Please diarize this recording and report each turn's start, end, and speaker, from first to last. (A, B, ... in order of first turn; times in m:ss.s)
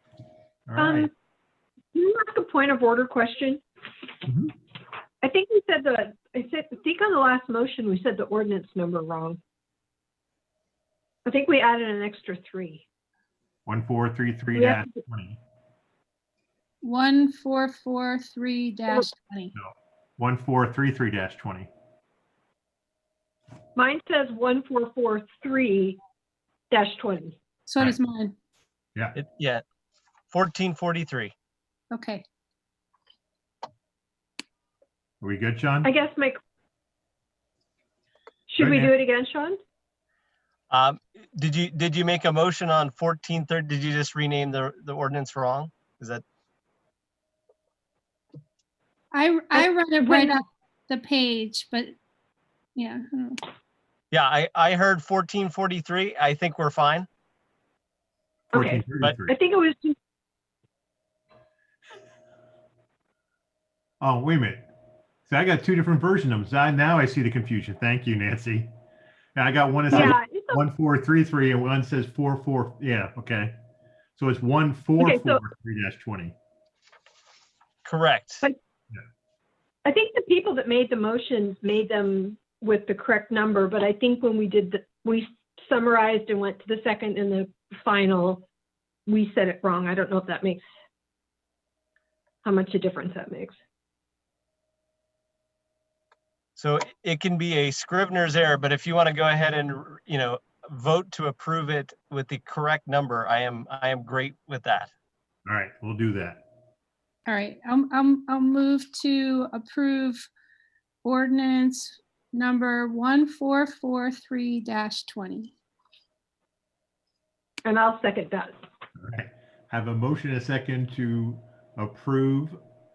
0:00.7-0:01.1 A
0:00.8-0:01.1 B
0:01.9-0:03.6 B
0:04.2-0:04.5 A
0:05.2-0:09.4 B
0:11.2-0:12.8 B
0:13.7-0:15.4 A
0:14.5-0:14.9 B
0:16.8-0:19.5 C
0:19.5-0:21.7 A
0:23.8-0:26.0 B
0:26.7-0:27.4 B
0:27.7-0:28.4 C
0:29.2-0:29.6 D
0:30.3-0:31.3 D
0:31.9-0:32.2 C
0:35.2-0:35.9 A
0:35.8-0:36.4 B
0:38.5-0:39.6 B
0:38.6-0:38.9 A
0:40.7-0:46.2 D
0:49.1-0:52.0 C
0:49.5-0:50.4 B
0:52.8-0:53.4 C
0:54.1-0:57.1 D
0:58.5-1:00.0 B
0:58.5-0:59.3 A
1:04.0-1:04.7 A
1:05.3-1:08.7 A
1:09.4-1:13.5 A
1:09.9-1:10.6 B
1:14.2-1:16.4 A
1:15.0-1:15.4 B
1:17.8-1:18.5 D
1:19.8-1:28.5 B
1:29.1-1:30.6 B
1:32.4-1:33.5 B
1:36.6-1:44.9 D
1:45.5-1:46.4 A
1:47.3-1:50.3 C
1:51.0-1:55.5 C
1:57.6-1:58.6 B
1:59.0-2:02.6 A